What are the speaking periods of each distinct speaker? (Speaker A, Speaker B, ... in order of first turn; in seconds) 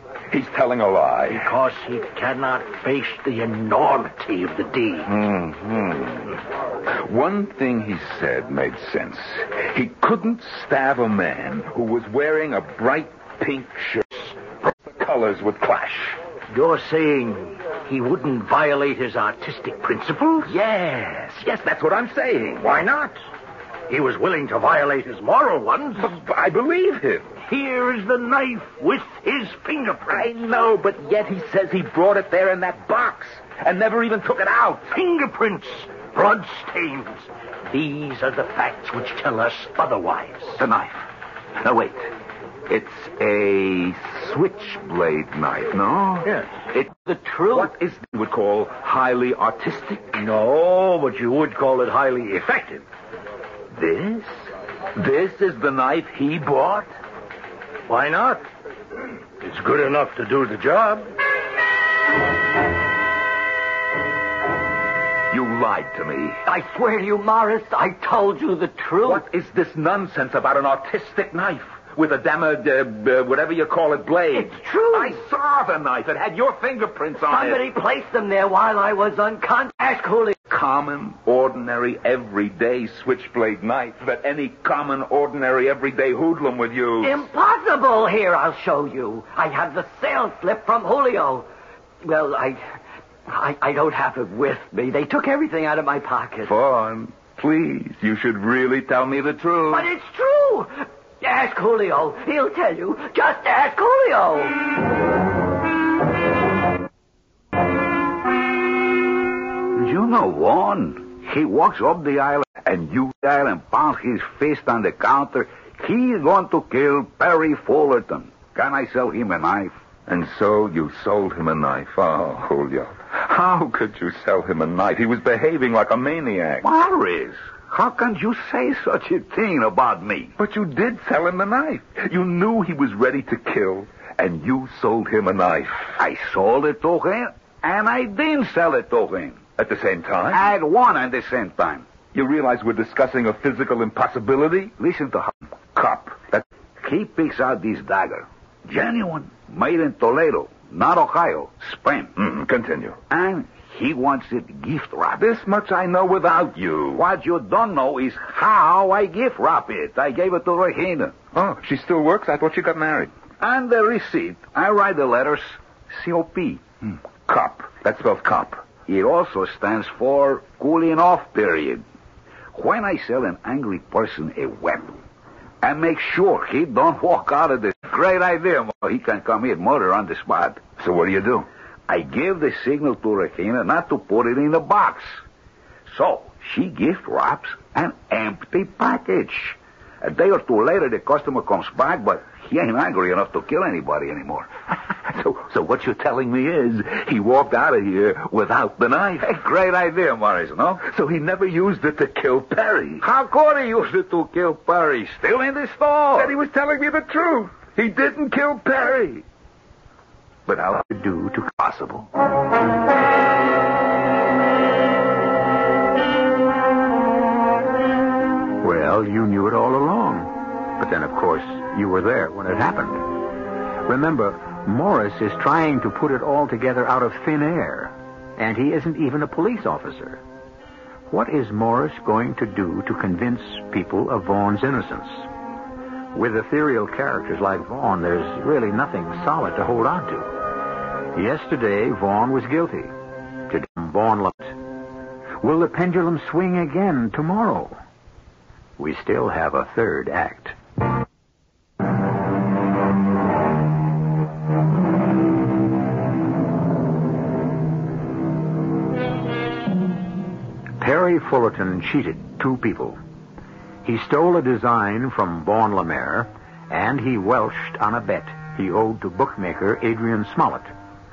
Speaker A: 0.3-1.5, 5.1-6.3, 6.9-16.2, 20.4-22.8, 26.0-27.3, 30.1-34.9, 40.6-41.1, 41.6-42.1, 42.7-46.9, 47.5-50.1, 53.7-54.3, 54.9-56.9, 65.3-66.4, 69.0-77.6, 80.5-87.2, 96.4-99.9, 120.1-126.7, 130.4-135.9, 139.6-140.4, 142.1-144.7, 145.8-146.4, 152.2-153.0, 155.2-157.0, 161.3-163.1, 167.3-168.7, 180.8-181.4, 195.1-199.3, 200.8-203.0, 206.2-209.2, 210.5-210.9, 211.5-212.1
Speaker B: 1.3-5.1, 16.5-20.5, 22.6-23.2, 23.9-26.1, 27.4-30.4, 34.9-40.6, 46.2-46.5, 50.1-52.8, 57.9-58.4, 59.4-61.1
Speaker C: 47.0-47.7, 66.5-69.2, 74.3-75.2, 77.2-80.4, 87.0-91.5, 92.0-92.6, 93.3-96.5, 99.7-104.5
Speaker D: 109.7-119.7, 126.6-130.3, 136.0-139.4, 140.3-141.8, 144.8-145.3, 146.8-152.1, 153.1-155.2, 156.9-161.1, 163.4-166.6, 168.8-171.8, 172.5-175.0, 175.6-180.8, 181.9-185.2, 185.9-194.5, 199.2-200.8, 203.0-206.3
Speaker E: 210.9-211.5, 218.6-223.2, 223.8-230.2, 231.1-235.3, 236.1-240.3, 241.1-242.9, 243.5-244.6, 245.4-247.8, 248.8-250.5, 260.8-263.0, 263.8-270.7